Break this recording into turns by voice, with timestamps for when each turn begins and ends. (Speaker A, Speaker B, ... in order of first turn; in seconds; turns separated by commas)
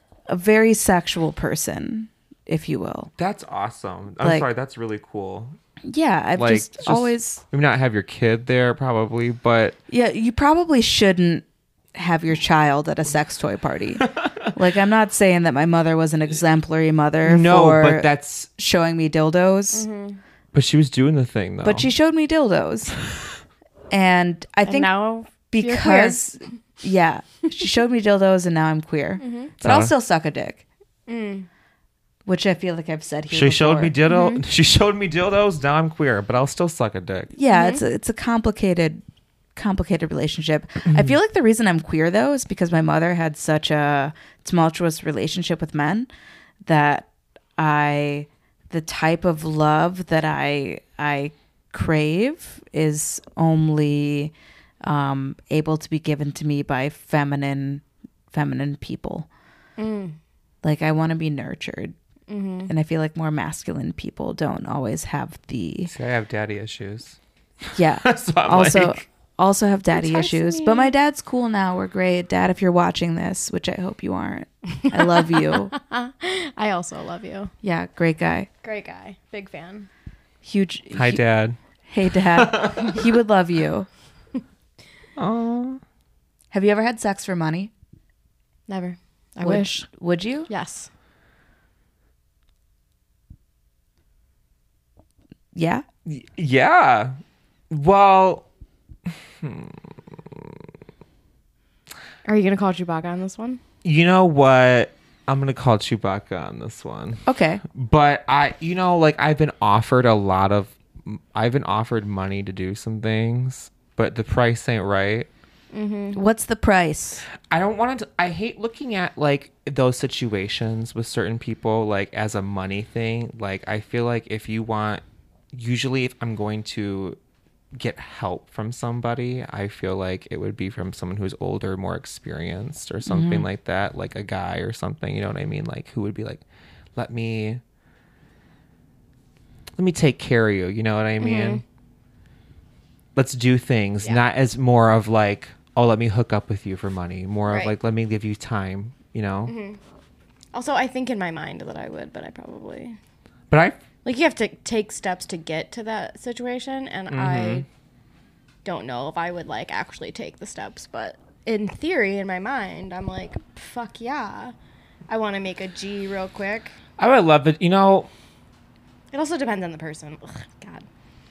Speaker A: 0.3-3.1, Speaker B: 3.2-5.6, Speaker A: 4.2-4.5, Speaker A: 5.8-7.4, Speaker B: 6.4-9.8, Speaker A: 9.9-19.9, Speaker B: 14.0-14.4, Speaker B: 17.2-18.5, Speaker C: 19.7-20.2, Speaker B: 20.5-21.9, Speaker A: 21.6-23.0, Speaker A: 23.9-24.9, Speaker C: 24.6-26.2, Speaker A: 25.5-30.6, Speaker C: 29.2-29.5, Speaker B: 29.6-29.9, Speaker C: 31.1-31.5, Speaker A: 32.3-34.0, Speaker B: 33.3-37.3, Speaker C: 34.1-34.4, Speaker A: 37.4-39.0, Speaker C: 37.5-37.8, Speaker A: 39.5-46.1, Speaker B: 40.9-41.1, Speaker A: 46.7-54.3, Speaker A: 54.8-59.3, Speaker C: 59.8-60.2, Speaker A: 60.6-62.0, Speaker C: 62.3-62.7, Speaker A: 62.7-65.9, Speaker B: 65.9-69.0, Speaker A: 67.8-75.7, Speaker C: 69.9-70.9, Speaker C: 74.8-77.5, Speaker A: 77.6-78.5, Speaker C: 78.6-79.9, Speaker A: 80.4-81.2, Speaker B: 80.9-81.6, Speaker A: 81.9-83.9, Speaker B: 82.3-83.0, Speaker B: 85.2-85.8, Speaker A: 86.5-87.7, Speaker C: 88.7-89.9, Speaker A: 89.4-90.5, Speaker C: 90.5-90.9, Speaker A: 95.5-95.8, Speaker B: 96.1-97.2, Speaker B: 97.7-98.5, Speaker B: 99.1-100.4, Speaker C: 102.2-103.6, Speaker B: 103.8-115.3, Speaker A: 107.3-107.6, Speaker C: 115.7-116.2, Speaker A: 116.1-117.2, Speaker B: 117.5-127.2, Speaker B: 127.8-136.4, Speaker A: 133.1-133.5, Speaker B: 137.0-137.6, Speaker B: 139.8-141.6, Speaker C: 141.2-141.6, Speaker B: 143.2-149.5, Speaker C: 147.5-147.8, Speaker C: 149.5-149.8, Speaker C: 150.5-153.0, Speaker B: 153.5-153.8, Speaker C: 154.0-157.7, Speaker B: 157.1-157.7, Speaker C: 158.7-164.5, Speaker C: 165.1-166.8, Speaker B: 167.0-168.1, Speaker C: 169.1-170.9